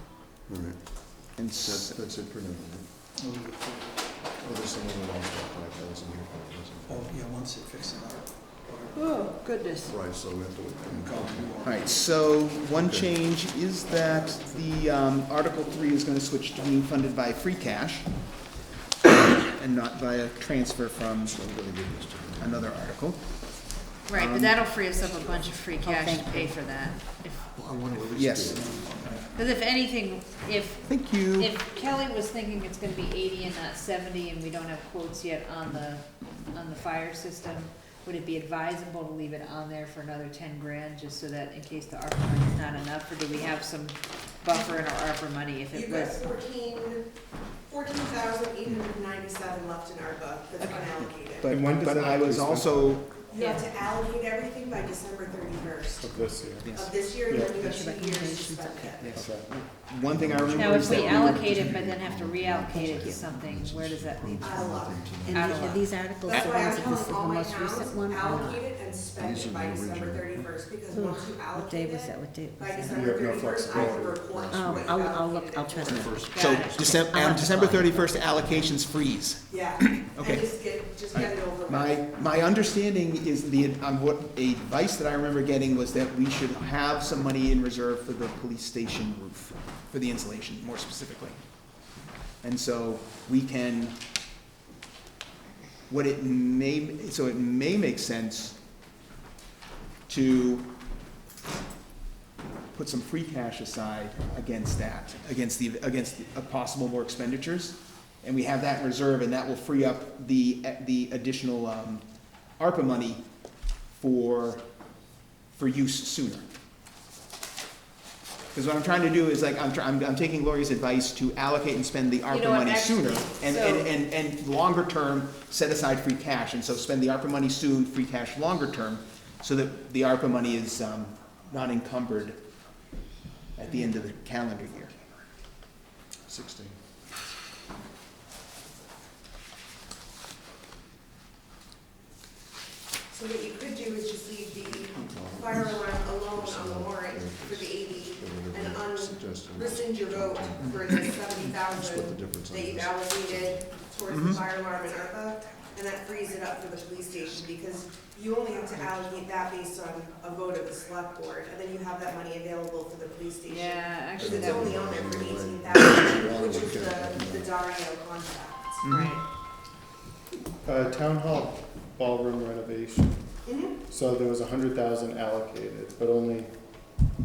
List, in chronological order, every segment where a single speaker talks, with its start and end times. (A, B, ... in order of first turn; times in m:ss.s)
0:00.5-0:00.8 A
0:01.4-0:02.0 B
0:01.5-0:02.9 A
0:03.2-0:04.2 C
0:04.4-0:07.1 A
0:06.8-0:09.9 C
0:08.9-0:09.9 D
0:09.9-0:11.7 A
0:10.9-0:12.2 C
0:11.6-0:18.1 B
0:12.7-0:13.1 A
0:14.2-0:14.6 C
0:19.0-0:21.4 B
0:21.3-0:22.9 A
0:22.4-0:23.2 B
0:24.0-0:27.6 D
0:24.1-0:24.6 B
0:25.8-0:26.6 E
0:27.5-0:29.3 A
0:28.1-0:28.7 B
0:28.7-0:29.2 C
0:29.3-0:46.2 D
0:30.9-0:31.5 B
0:45.7-0:47.0 F
0:47.7-0:51.5 F
0:51.0-0:53.1 B
0:51.5-0:53.0 G
0:53.3-0:56.1 F
0:53.4-0:53.7 D
0:56.0-0:57.6 G
0:56.6-0:57.0 B
0:56.7-0:59.2 F
0:57.5-0:59.1 E
0:59.0-1:01.7 B
0:59.1-0:59.5 G
1:00.0-1:05.4 A
1:00.5-1:05.9 D
1:02.7-1:03.0 E
1:04.4-1:05.7 F
1:05.1-1:08.7 E
1:06.2-1:16.2 F
1:06.3-1:06.6 B
1:08.8-1:10.7 A
1:10.8-1:13.9 E
1:12.9-1:14.3 G
1:13.7-1:14.9 A
1:14.5-1:18.7 E
1:15.8-1:20.5 B
1:16.3-1:16.8 D
1:19.5-1:22.0 F
1:21.1-1:31.4 B
1:32.4-1:34.0 B
1:35.9-1:38.6 B
1:40.1-1:40.6 B
1:42.7-1:52.0 B
1:52.6-1:53.2 B
1:53.9-1:54.6 B
1:55.5-1:56.4 B
1:58.5-2:12.4 B
2:02.3-2:03.9 D
2:13.6-2:14.9 B
2:16.3-2:16.7 A
2:23.1-2:49.2 F
2:24.8-2:33.8 A
2:30.6-2:30.9 B
2:34.1-2:34.4 B
2:43.4-2:44.7 D
2:44.2-2:47.6 A
2:48.8-2:49.2 B
2:50.6-2:53.2 G
2:53.4-2:53.8 F
2:53.9-2:56.5 G